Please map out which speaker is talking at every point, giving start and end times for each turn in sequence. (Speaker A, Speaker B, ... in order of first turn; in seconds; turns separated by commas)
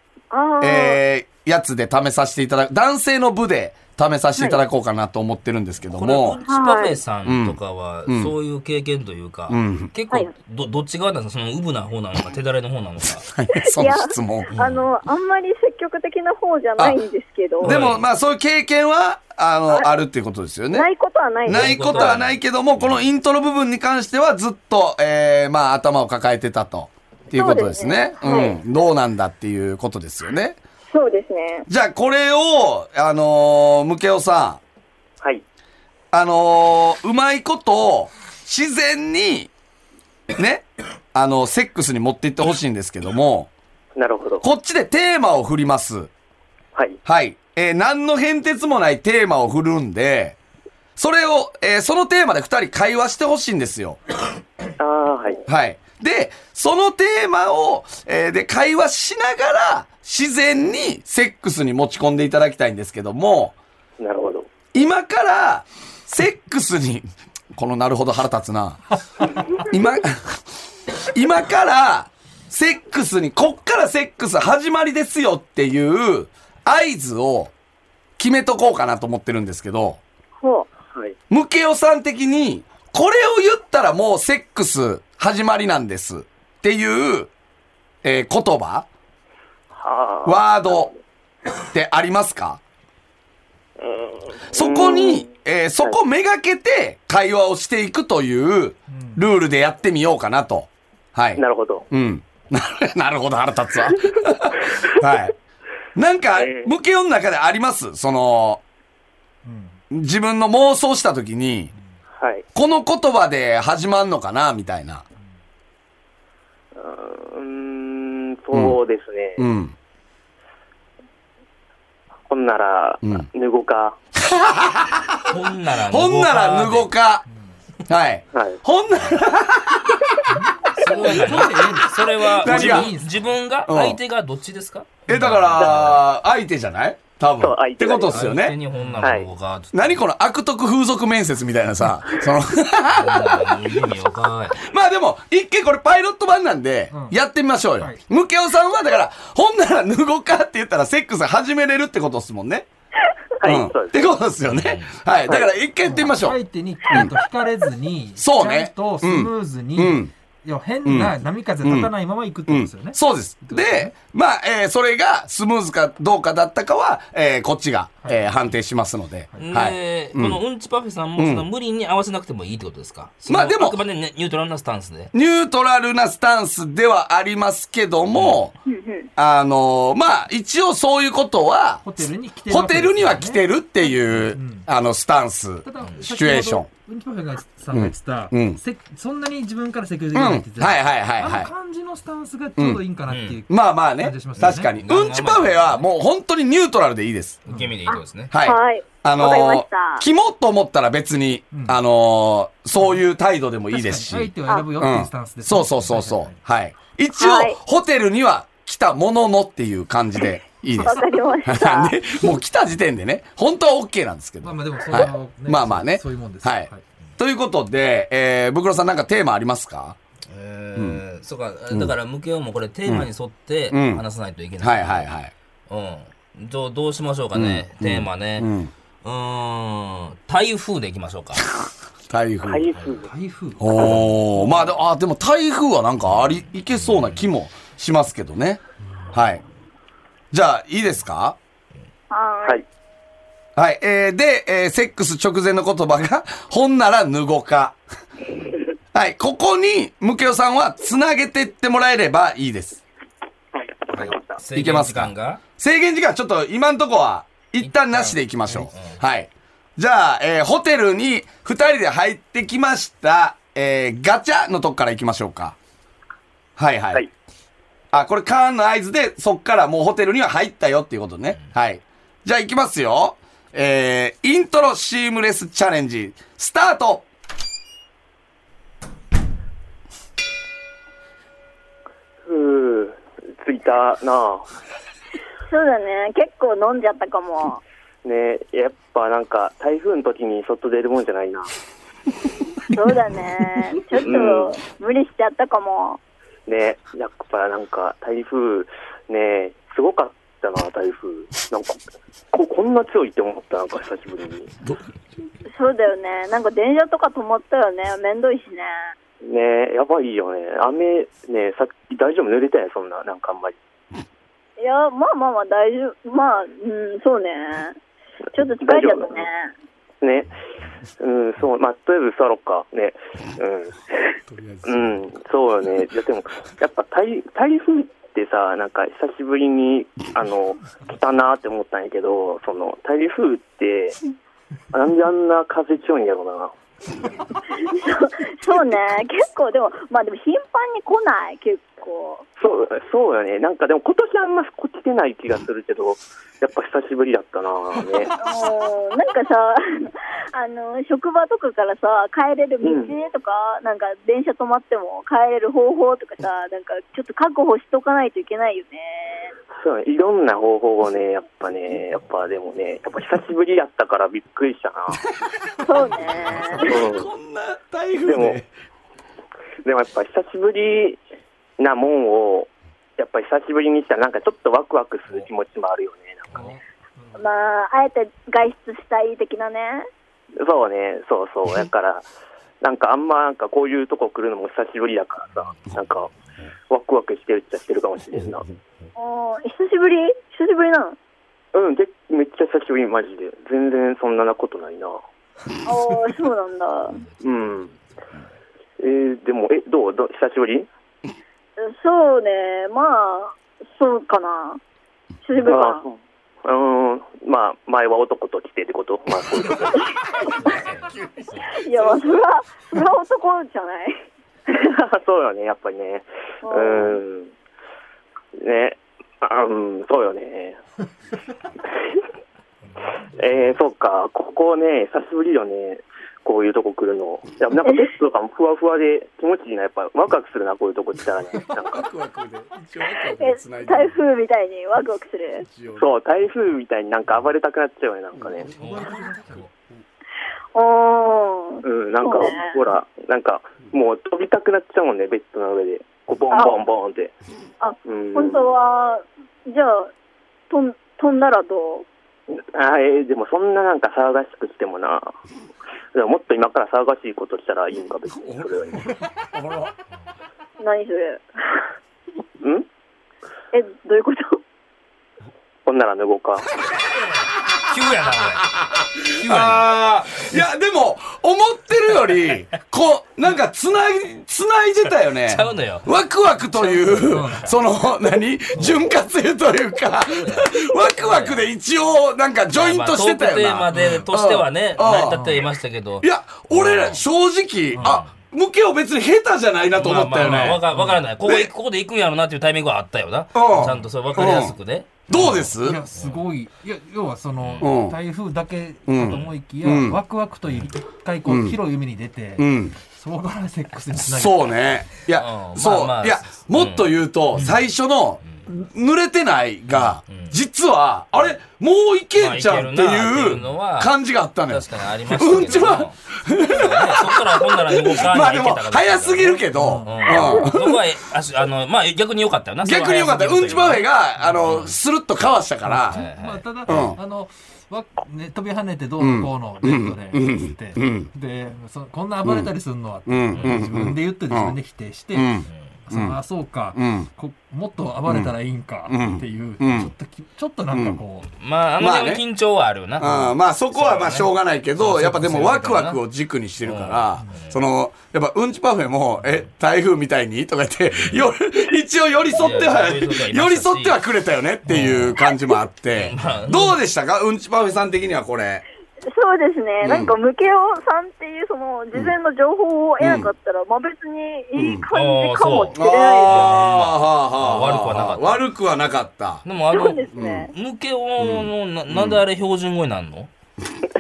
Speaker A: 0.3-1.0, Speaker B: 0.6-6.4, Speaker C: 5.9-13.3, Speaker A: 6.5-7.0, Speaker B: 7.2-8.3, Speaker B: 9.5-9.9, Speaker B: 13.3-14.5, Speaker A: 13.6-17.8, Speaker C: 14.5-14.8, Speaker B: 17.6-20.9, Speaker C: 17.6-18.1, Speaker A: 20.7-21.9, Speaker B: 21.4-30.6, Speaker C: 21.5-23.1, Speaker A: 27.3-28.6, Speaker A: 30.9-31.6, Speaker B: 31.7-34.6, Speaker B: 36.1-39.5, Speaker B: 40.3-43.5, Speaker D: 44.0-44.5, Speaker B: 44.4-46.1, Speaker B: 47.0-50.4, Speaker B: 51.0-54.0, Speaker D: 54.8-55.4, Speaker B: 55.5-63.5, Speaker D: 64.0-64.5, Speaker B: 64.7-68.8, Speaker B: 69.5-70.4, Speaker B: 70.9-77.5, Speaker B: 78.2-80.0, Speaker A: 80.4-80.7, Speaker D: 80.9-81.2, Speaker B: 81.3-87.3, Speaker B: 88.0-88.9, Speaker D: 89.7-90.9, Speaker B: 90.2-90.9, Speaker B: 91.6-92.6, Speaker D: 93.8-95.3, Speaker B: 94.5-105.3, Speaker E: 98.9-99.3, Speaker D: 101.3-101.8, Speaker B: 105.9-108.6, Speaker D: 106.3-106.7, Speaker E: 109.4-109.8, Speaker B: 109.9-111.7, Speaker D: 112.2-112.4, Speaker B: 112.5-115.0, Speaker D: 116.8-119.5, Speaker B: 118.5-118.8, Speaker B: 119.4-119.7, Speaker D: 122.3-124.0, Speaker B: 123.0-123.3, Speaker B: 124.2-125.2, Speaker C: 125.3-126.9, Speaker B: 125.8-127.2, Speaker B: 127.9-130.1, Speaker D: 128.3-128.6, Speaker E: 130.3-133.3, Speaker C: 130.7-136.0, Speaker D: 130.8-131.1, Speaker B: 132.4-132.9, Speaker B: 133.6-134.0, Speaker E: 135.1-135.4, Speaker B: 135.1-138.6, Speaker D: 135.6-136.0, Speaker D: 137.4-138.3, Speaker C: 138.1-140.0, Speaker E: 138.8-139.1, Speaker D: 139.0-139.3, Speaker B: 139.7-143.8, Speaker C: 142.9-144.6, Speaker B: 144.5-152.7, Speaker E: 146.9-147.2, Speaker D: 153.4-154.1, Speaker B: 153.4-156.4, Speaker C: 154.4-154.9, Speaker E: 155.8-163.9, Speaker B: 156.9-157.2, Speaker B: 158.2-160.1, Speaker B: 160.8-161.9, Speaker B: 162.5-170.4, Speaker E: 168.0-168.3, Speaker C: 169.3-175.1, Speaker B: 171.2-171.5, Speaker B: 173.3-173.8, Speaker B: 175.1-178.5, Speaker C: 178.1-178.5, Speaker A: 178.7-179.1, Speaker B: 179.2-186.7, Speaker E: 181.8-183.5, Speaker E: 184.3-184.7, Speaker E: 185.6-194.7, Speaker B: 187.7-188.6, Speaker B: 190.1-191.5, Speaker B: 192.6-192.8, Speaker C: 193.1-193.4, Speaker B: 193.5-197.4, Speaker C: 194.4-195.9, Speaker C: 197.4-198.3, Speaker E: 197.5-197.7, Speaker A: 197.9-200.1, Speaker B: 198.3-220.0, Speaker E: 201.5-201.8, Speaker E: 202.7-203.0, Speaker E: 203.7-206.4, Speaker A: 207.2-207.6, Speaker A: 210.8-211.9, Speaker E: 214.4-216.8, Speaker C: 220.3-225.1, Speaker B: 220.8-221.0, Speaker B: 223.7-224.0, Speaker B: 224.6-225.3, Speaker C: 225.7-228.5, Speaker B: 227.3-228.7, Speaker C: 229.0-231.5, Speaker B: 232.1-232.6, Speaker D: 232.4-233.1, Speaker E: 233.0-234.7, Speaker B: 233.6-238.6, Speaker D: 233.8-234.1, Speaker C: 236.1-237.3, Speaker E: 238.8-239.2, Speaker B: 239.1-239.4, Speaker B: 240.3-241.4, Speaker A: 242.1-242.6, Speaker B: 243.6-247.8, Speaker B: 248.9-252.8, Speaker D: 253.9-254.4, Speaker C: 253.9-255.4, Speaker B: 254.5-265.6, Speaker C: 257.6-259.0, Speaker B: 266.6-267.0, Speaker B: 267.9-277.1, Speaker D: 282.2-284.5, Speaker A: 285.5-287.6, Speaker D: 288.0-291.5, Speaker A: 292.7-296.0, Speaker D: 294.0-294.5, Speaker D: 296.5-301.8, Speaker D: 302.3-304.5, Speaker A: 305.5-308.9, Speaker D: 309.2-313.6, Speaker A: 314.6-317.8, Speaker A: 318.3-319.5, Speaker D: 318.6-319.2, Speaker D: 320.0-320.3, Speaker D: 321.0-324.1, Speaker B: 324.3-325.0, Speaker D: 324.6-334.0, Speaker D: 334.7-336.5, Speaker A: 337.6-342.2, Speaker D: 342.4-348.1, Speaker A: 348.2-359.3, Speaker D: 352.6-352.9, Speaker D: 359.6-365.0, Speaker A: 365.6-366.7, Speaker B: 366.2-368.5, Speaker D: 366.6-367.1, Speaker D: 368.0-368.4, Speaker D: 369.6-371.0, Speaker D: 371.6-376.5, Speaker E: 376.3-377.3, Speaker A: 377.2-379.9, Speaker D: 380.4-382.0, Speaker D: 382.6-386.1, Speaker D: 386.7-388.4, Speaker A: 388.9-391.0, Speaker D: 391.5-395.0, Speaker A: 395.6-396.9, Speaker C: 396.9-398.2, Speaker D: 397.2-397.7, Speaker D: 398.8-400.7, Speaker A: 401.6-404.6, Speaker A: 405.2-405.8, Speaker D: 405.4-410.0, Speaker C: 410.2-411.6, Speaker A: 411.5-414.0, Speaker D: 414.5-417.3, Speaker A: 416.4-417.0, Speaker D: 418.4-420.6, Speaker D: 421.7-422.0, Speaker D: 423.1-431.9, Speaker B: 431.7-434.0, Speaker A: 433.2-435.4, Speaker B: 435.4-435.9, Speaker D: 435.8-438.6, Speaker E: 438.3-439.5, Speaker A: 440.5-442.5, Speaker D: 441.6-447.1, Speaker A: 446.3-446.6, Speaker A: 447.6-449.9, Speaker D: 447.9-448.4, Speaker A: 450.5-451.9, Speaker D: 452.3-455.1, Speaker D: 455.9-458.9, Speaker B: 458.1-459.7, Speaker A: 460.6-461.6, Speaker A: 463.5-464.4, Speaker D: 465.6-466.6, Speaker C: 467.1-468.5, Speaker B: 468.6-485.2, Speaker C: 469.1-470.3, Speaker C: 475.2-475.9, Speaker C: 476.5-477.4, Speaker E: 477.0-477.5, Speaker C: 478.5-478.9, Speaker C: 480.0-481.5, Speaker C: 482.5-487.0, Speaker E: 483.7-484.1, Speaker E: 485.1-485.5, Speaker B: 486.0-490.6, Speaker E: 487.7-488.0, Speaker C: 487.8-488.1, Speaker C: 489.7-496.2, Speaker E: 490.2-491.1, Speaker B: 491.2-491.5, Speaker B: 493.3-494.6, Speaker B: 495.1-495.8, Speaker E: 495.1-504.7, Speaker C: 497.4-497.8, Speaker B: 497.6-498.0, Speaker B: 498.9-500.0, Speaker C: 500.4-500.7, Speaker B: 501.3-501.6, Speaker B: 502.4-502.8, Speaker B: 503.9-520.8, Speaker C: 505.1-507.6, Speaker C: 509.7-510.4, Speaker C: 512.1-523.9, Speaker E: 519.5-520.3, Speaker B: 522.6-526.0, Speaker E: 524.2-524.5, Speaker C: 524.5-524.8, Speaker E: 525.6-541.3, Speaker C: 525.9-527.0, Speaker B: 526.7-527.0, Speaker B: 529.0-531.1, Speaker B: 532.2-532.5, Speaker B: 533.0-534.6, Speaker B: 535.1-536.2, Speaker B: 536.8-537.1, Speaker B: 538.0-538.4, Speaker B: 538.9-539.9, Speaker B: 540.7-541.0, Speaker C: 541.4-546.0, Speaker B: 541.8-542.2, Speaker B: 543.0-558.6, Speaker C: 546.6-547.6, Speaker C: 549.2-549.5, Speaker C: 551.0-551.3, Speaker C: 552.3-554.0, Speaker E: 554.6-554.9, Speaker C: 554.7-555.2, Speaker C: 555.9-556.8, Speaker A: 559.1-566.6, Speaker B: 559.8-560.1, Speaker B: 563.0-563.3, Speaker B: 564.5-564.9, Speaker C: 564.9-568.5, Speaker B: 565.7-569.4, Speaker C: 569.4-573.3, Speaker A: 569.7-570.5, Speaker B: 570.1-570.5, Speaker B: 571.2-572.2